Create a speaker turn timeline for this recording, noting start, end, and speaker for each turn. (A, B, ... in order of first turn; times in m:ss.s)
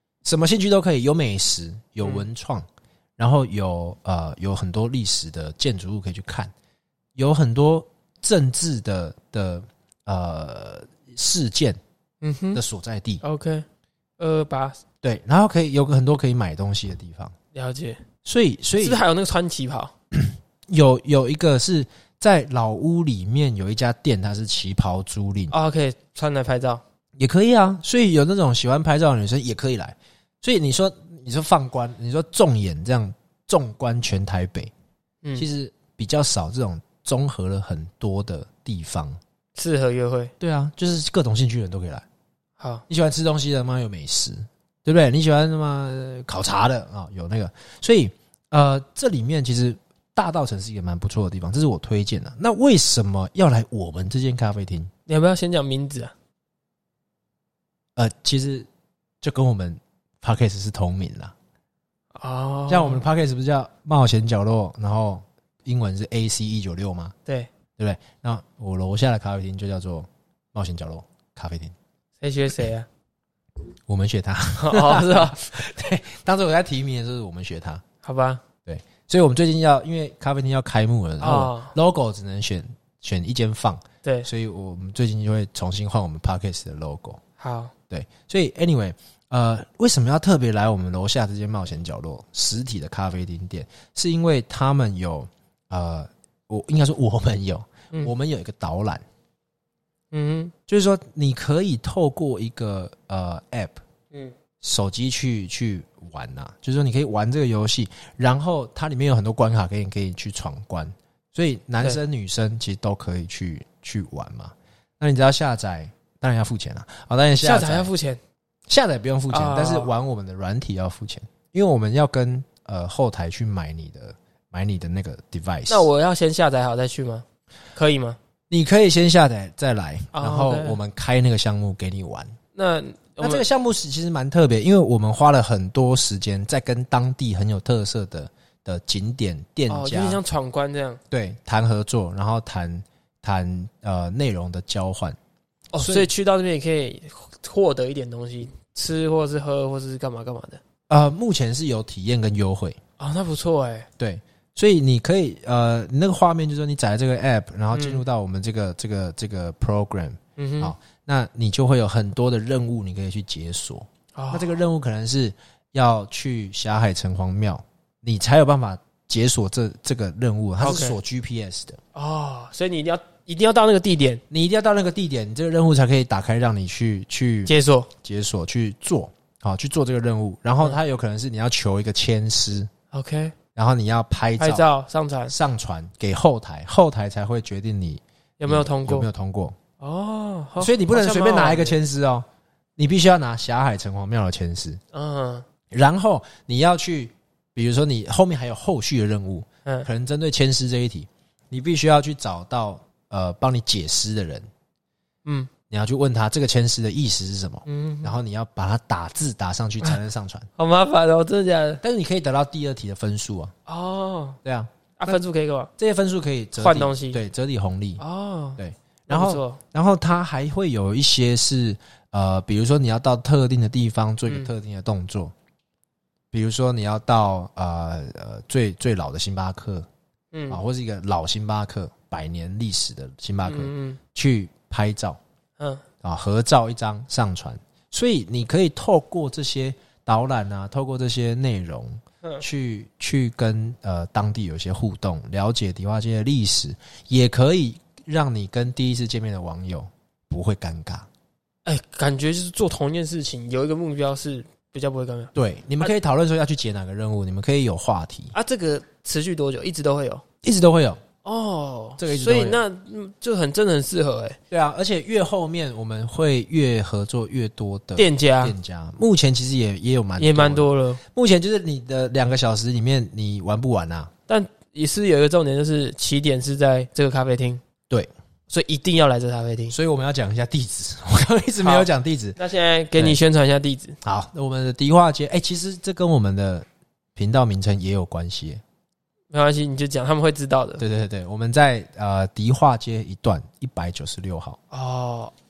0:00.2-0:02.7 A
0:03.2-0:06.5 A
0:07.2-0:11.8 A
0:12.2-0:12.6 B
0:12.5-0:13.2 A
0:13.2-0:13.7 B
0:14.2-0:14.8 B
0:15.0-0:17.3 A
0:17.5-0:18.0 B
0:18.2-0:19.0 A
0:18.8-0:19.9 B
0:20.1-0:25.5 A
0:25.5-0:26.8 B
0:27.2-0:34.7 A
0:35.4-0:39.2 A
0:39.6-0:40.3 B
0:40.4-0:42.0 A
0:42.6-0:42.8 B
0:42.9-0:54.9 A
0:55.1-0:56.1 B
0:58.0-0:58.7 A
0:59.2-1:01.3 A
1:02.1-1:03.0 B
1:02.7-1:07.2 A
1:07.8-1:11.7 A
1:12.2-1:12.9 B
1:13.9-1:17.8 A
1:14.6-1:15.7 B
1:18.0-1:18.4 B
1:18.6-1:27.2 A
1:21.2-1:21.7 B
1:27.4-1:27.7 B
1:27.9-1:39.0 A
1:40.1-1:40.5 B
1:40.7-1:43.8 A
1:44.6-1:57.9 A
1:57.4-1:58.2 B
1:58.7-2:05.9 A
1:59.3-1:59.9 B
2:05.7-2:08.2 B
2:08.5-2:12.4 A
2:10.1-2:10.8 B
2:12.6-2:13.4 B
2:13.2-2:20.2 A
2:19.7-2:21.0 B
2:21.1-2:25.2 A
2:25.7-2:30.6 B
2:25.8-2:26.1 A
2:30.9-2:32.8 A
2:33.0-2:33.9 B
2:34.0-2:51.8 A
2:37.7-2:38.0 B
2:40.4-2:40.7 B
2:44.1-2:44.6 B
2:50.6-2:51.0 B
2:52.0-2:54.2 B
2:54.3-3:02.7 A
2:57.5-2:57.9 B
3:02.9-3:03.4 B
3:03.6-3:04.7 A
3:04.4-3:05.3 B
3:05.3-3:09.6 A
3:08.4-3:09.1 B
3:09.8-3:11.8 B
3:10.6-3:12.3 A
3:12.8-3:14.8 A
3:14.9-3:15.5 B
3:15.7-3:24.5 A
3:25.2-3:25.5 B
3:25.7-3:30.5 A
3:27.7-3:28.2 B
3:30.6-3:31.8 B
3:31.8-3:33.5 A
3:33.7-3:34.4 B
3:34.4-3:35.2 A
3:35.0-3:35.7 B
3:35.8-3:38.0 A
3:36.6-3:37.2 B
3:38.0-3:39.6 B
3:38.6-3:45.3 A
3:46.3-3:49.9 A
3:50.3-3:50.6 B
3:50.5-3:55.2 A
3:53.4-3:54.0 B
3:55.6-3:55.8 B
3:56.0-4:11.1 A
4:11.6-4:15.9 B
4:15.4-4:18.3 A
4:18.3-4:20.2 B
4:20.4-4:21.0 A
4:21.2-4:24.4 B
4:22.0-4:22.6 A
4:24.5-4:34.1 A
4:28.0-4:28.6 B
4:30.2-4:31.0 B
4:34.3-4:37.6 B
4:38.5-4:39.8 B
4:39.7-4:42.4 A
4:41.6-4:44.0 B
4:44.0-4:48.6 A
4:49.3-4:50.8 B
4:50.8-4:54.6 A
4:54.7-4:55.3 B